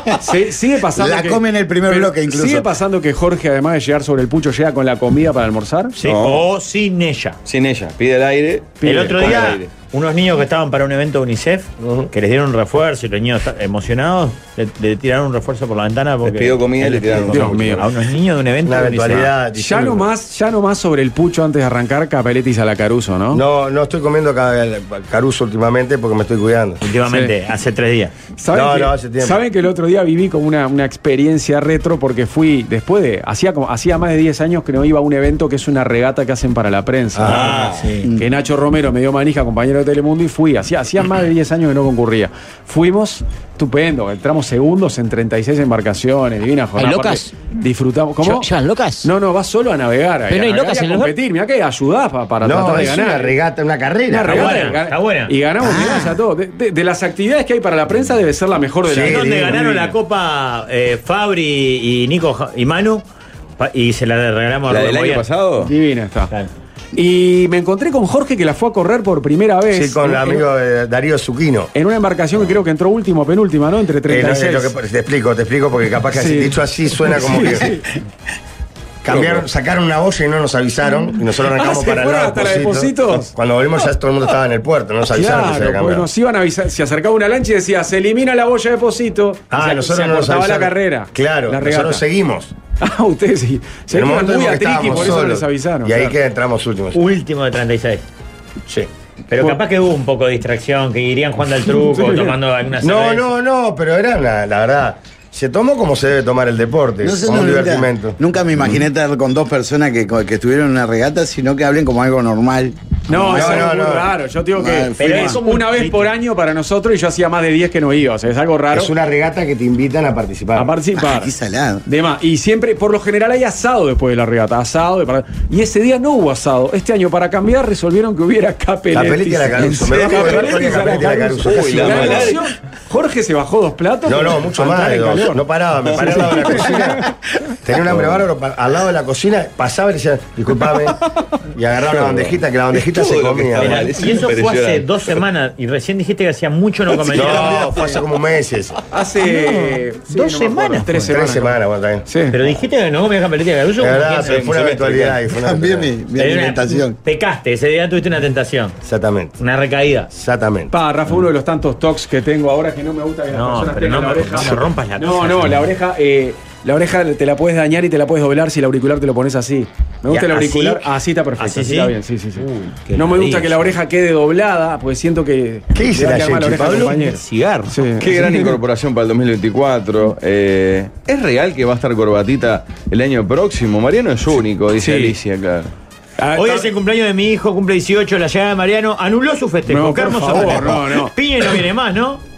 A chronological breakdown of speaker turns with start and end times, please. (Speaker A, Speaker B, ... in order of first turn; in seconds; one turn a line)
Speaker A: 0.2-5.9
Speaker B: 0.9-2.7
Speaker C: 5.9-7.4
Speaker D: 6.0-6.5
Speaker D: 7.5-9.7
Speaker A: 8.8-9.5
Speaker C: 8.8-19.3
Speaker E: 11.8-12.1
Speaker D: 16.2-17.9
Speaker A: 17.2-17.9
Speaker E: 18.6-20.1
Speaker A: 19.5-23.4
Speaker E: 23.3-26.8
Speaker C: 26.8-28.1
Speaker A: 27.1-27.3
Speaker A: 28.4-37.5
Speaker E: 28.5-29.4
Speaker E: 37.1-37.5
Speaker D: 37.2-37.9
Speaker C: 37.2-38.1
Speaker A: 38.1-48.5
Speaker F: 46.8-47.3
Speaker F: 48.2-49.1
Speaker A: 49.0-53.4
Speaker F: 50.3-51.1
Speaker E: 52.4-54.7
Speaker A: 54.1-59.9
Speaker C: 54.2-55.3
Speaker B: 55.6-56.2
Speaker E: 58.9-59.7
Speaker C: 59.0-63.0
Speaker C: 63.6-65.2
Speaker D: 64.7-65.7
Speaker A: 65.6-66.3
Speaker A: 66.9-70.4
Speaker E: 69.7-71.7
Speaker A: 71.7-74.7
Speaker E: 74.1-77.8
Speaker A: 76.1-77.8
Speaker E: 79.0-86.1
Speaker A: 81.5-83.3
Speaker A: 85.1-92.0
Speaker E: 89.5-92.5
Speaker A: 92.8-96.1
Speaker E: 93.9-97.0
Speaker C: 96.9-98.0
Speaker C: 99.3-103.3
Speaker A: 101.7-102.3
Speaker E: 102.8-108.2
Speaker B: 107.0-113.7
Speaker A: 113.1-118.9
Speaker E: 113.2-114.1
Speaker B: 114.5-115.4
Speaker C: 115.0-116.1
Speaker E: 118.7-120.7
Speaker A: 120.5-121.3
Speaker B: 121.0-121.8
Speaker A: 121.8-135.4
Speaker E: 128.9-132.4
Speaker D: 130.1-130.8
Speaker D: 131.4-132.4
Speaker E: 134.1-137.1
Speaker A: 135.9-137.1
Speaker E: 137.6-140.9
Speaker D: 137.9-138.2
Speaker E: 141.5-143.9
Speaker D: 141.9-145.1
Speaker C: 143.6-147.9
Speaker E: 147.1-148.8
Speaker A: 148.9-152.4
Speaker C: 149.2-151.1
Speaker E: 151.0-152.1
Speaker C: 152.3-154.4
Speaker E: 153.8-155.9
Speaker D: 154.2-155.2
Speaker B: 155.3-157.0
Speaker C: 156.2-158.8
Speaker E: 158.8-159.4
Speaker C: 159.4-160.1
Speaker E: 160.1-160.7
Speaker A: 160.7-178.5
Speaker C: 163.3-165.6
Speaker C: 170.1-170.9
Speaker C: 171.4-173.7
Speaker E: 175.7-176.9
Speaker C: 176.7-177.8
Speaker D: 178.0-185.7
Speaker A: 184.8-185.1
Speaker A: 186.2-186.7
Speaker C: 186.3-192.2
Speaker A: 189.7-191.1